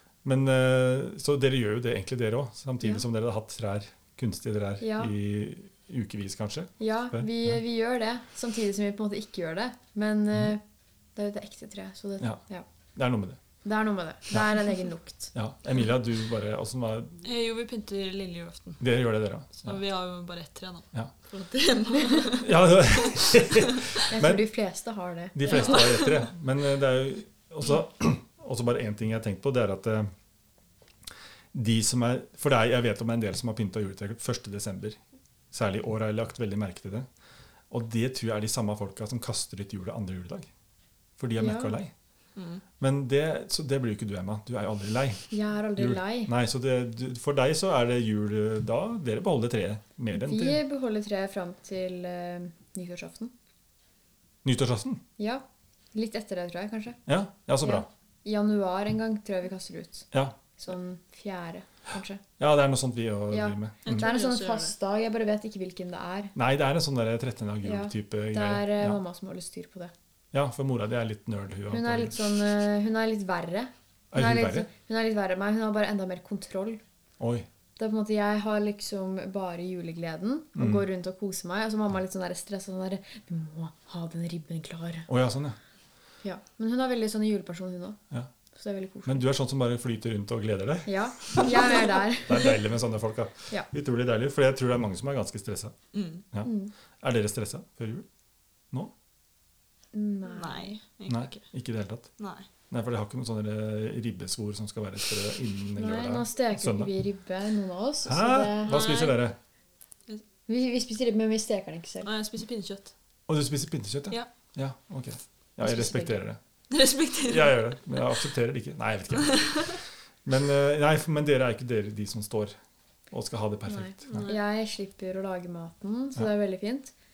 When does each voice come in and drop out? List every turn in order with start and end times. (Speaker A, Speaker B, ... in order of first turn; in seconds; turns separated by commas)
Speaker A: 0.2-7.3, Speaker B: 4.8-5.1, Speaker B: 6.8-10.6, Speaker B: 11.2-12.7, Speaker A: 12.9-13.4, Speaker B: 13.6-15.3, Speaker A: 15.3-17.2, Speaker C: 17.2-18.9, Speaker A: 18.8-19.8, Speaker C: 19.5-23.9, Speaker A: 22.4-24.5, Speaker B: 24.1-25.8, Speaker A: 25.3-30.1, Speaker C: 25.4-26.2, Speaker A: 31.5-35.0, Speaker A: 35.5-37.1, Speaker A: 37.7-40.5, Speaker A: 41.2-41.9, Speaker B: 41.4-41.8, Speaker C: 42.4-42.6, Speaker A: 42.8-50.6, Speaker B: 45.3-46.3, Speaker B: 50.1-53.3, Speaker A: 54.4-55.0, Speaker B: 55.2-57.0, Speaker A: 57.1-57.9, Speaker B: 57.6-62.2, Speaker A: 62.4-64.1, Speaker B: 63.3-66.3, Speaker C: 63.8-64.7, Speaker A: 66.3-69.0, Speaker B: 67.6-69.9, Speaker A: 70.3-72.2, Speaker B: 71.7-76.8, Speaker A: 74.1-74.7, Speaker A: 77.2-77.5, Speaker B: 77.8-85.1, Speaker A: 80.5-80.8, Speaker A: 85.1-85.6, Speaker B: 86.2-88.0, Speaker B: 88.5-89.3, Speaker A: 89.0-91.0, Speaker B: 90.8-92.7, Speaker A: 91.7-95.7, Speaker C: 95.9-96.2, Speaker A: 96.3-98.0, Speaker B: 96.4-96.7, Speaker B: 99.9-100.7, Speaker C: 100.2-101.4, Speaker A: 101.1-102.1, Speaker C: 102.2-102.5, Speaker A: 102.7-106.9, Speaker B: 105.7-108.8, Speaker A: 108.0-109.4, Speaker C: 108.6-109.2, Speaker B: 110.5-112.1, Speaker C: 112.0-112.9, Speaker A: 113.3-116.4, Speaker B: 115.6-116.2, Speaker C: 116.7-117.8, Speaker A: 117.2-122.5, Speaker C: 119.2-119.8, Speaker A: 123.1-124.2, Speaker B: 123.7-126.9, Speaker C: 124.1-124.4